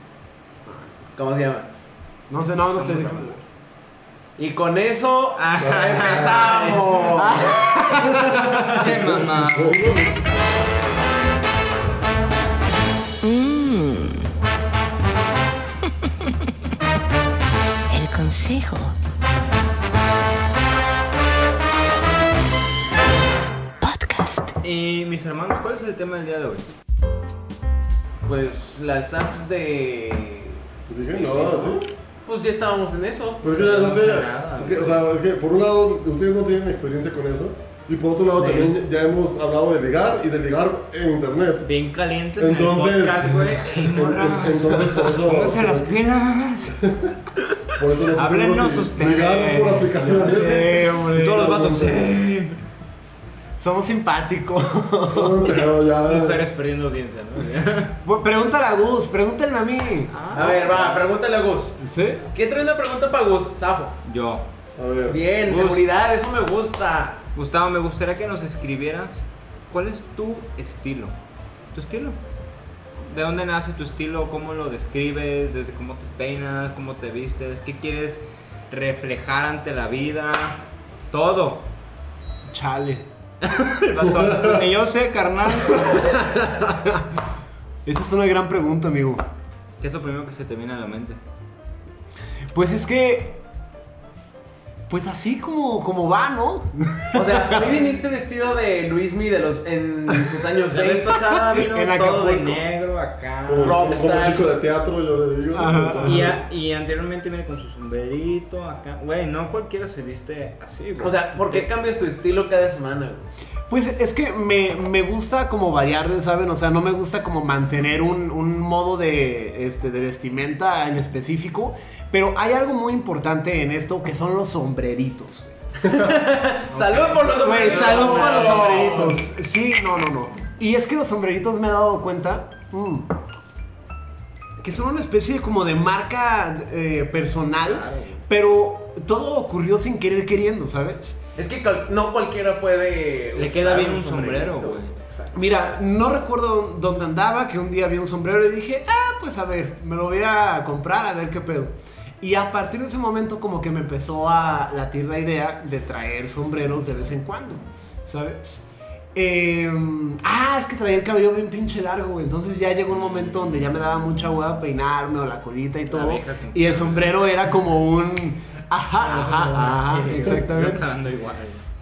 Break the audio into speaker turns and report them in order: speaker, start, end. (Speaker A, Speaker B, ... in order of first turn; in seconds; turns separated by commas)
Speaker A: 0.7-0.9, Speaker B: 1.1-1.7, Speaker A: 2.3-3.4, Speaker C: 2.8-3.3, Speaker B: 4.4-8.9, Speaker C: 5.4-7.1, Speaker D: 5.6-10.2, Speaker A: 7.1-8.6, Speaker C: 8.5-9.9, Speaker E: 13.2-14.2, Speaker E: 17.9-18.9, Speaker E: 23.8-24.5, Speaker C: 24.6-26.6, Speaker B: 28.2-30.6, Speaker D: 30.9-31.9, Speaker B: 31.1-33.6, Speaker D: 33.4-41.7, Speaker C: 33.5-35.0, Speaker B: 38.4-38.7, Speaker C: 41.6-46.8, Speaker D: 42.4-46.0, Speaker D: 46.8-47.1, Speaker D: 47.8-52.1, Speaker C: 48.1-50.2, Speaker B: 50.0-50.5, Speaker A: 50.2-51.6, Speaker C: 51.1-52.6, Speaker A: 53.6-55.5, Speaker D: 55.1-56.5, Speaker C: 55.5-58.0, Speaker A: 58.0-60.1, Speaker C: 60.1-61.1, Speaker B: 60.3-61.8, Speaker A: 61.8-62.2, Speaker B: 62.3-63.9, Speaker C: 64.0-64.5, Speaker D: 64.8-65.2, Speaker B: 65.1-67.2, Speaker C: 67.3-71.1, Speaker C: 71.7-72.2, Speaker C: 73.0-80.6, Speaker C: 81.1-81.6, Speaker A: 82.5-83.0, Speaker C: 83.4-86.4, Speaker D: 84.2-84.6, Speaker A: 85.7-87.0, Speaker A: 87.8-89.2, Speaker C: 89.8-91.2, Speaker A: 92.5-93.4, Speaker A: 94.9-97.7, Speaker B: 97.1-101.1, Speaker C: 100.7-103.9, Speaker A: 101.5-102.6, Speaker D: 103.5-106.4, Speaker B: 103.6-104.5, Speaker A: 105.5-106.3, Speaker C: 106.0-111.7, Speaker B: 111.0-113.3, Speaker A: 113.7-125.5, Speaker B: 125.8-129.2, Speaker C: 126.7-128.7, Speaker A: 127.4-133.1, Speaker A: 134.6-141.2, Speaker C: 137.6-138.2, Speaker B: 141.4-145.4, Speaker C: 143.3-144.9, Speaker A: 145.3-170.9, Speaker C: 162.9-163.7, Speaker C: 165.9-167.3, Speaker C: 169.0-171.6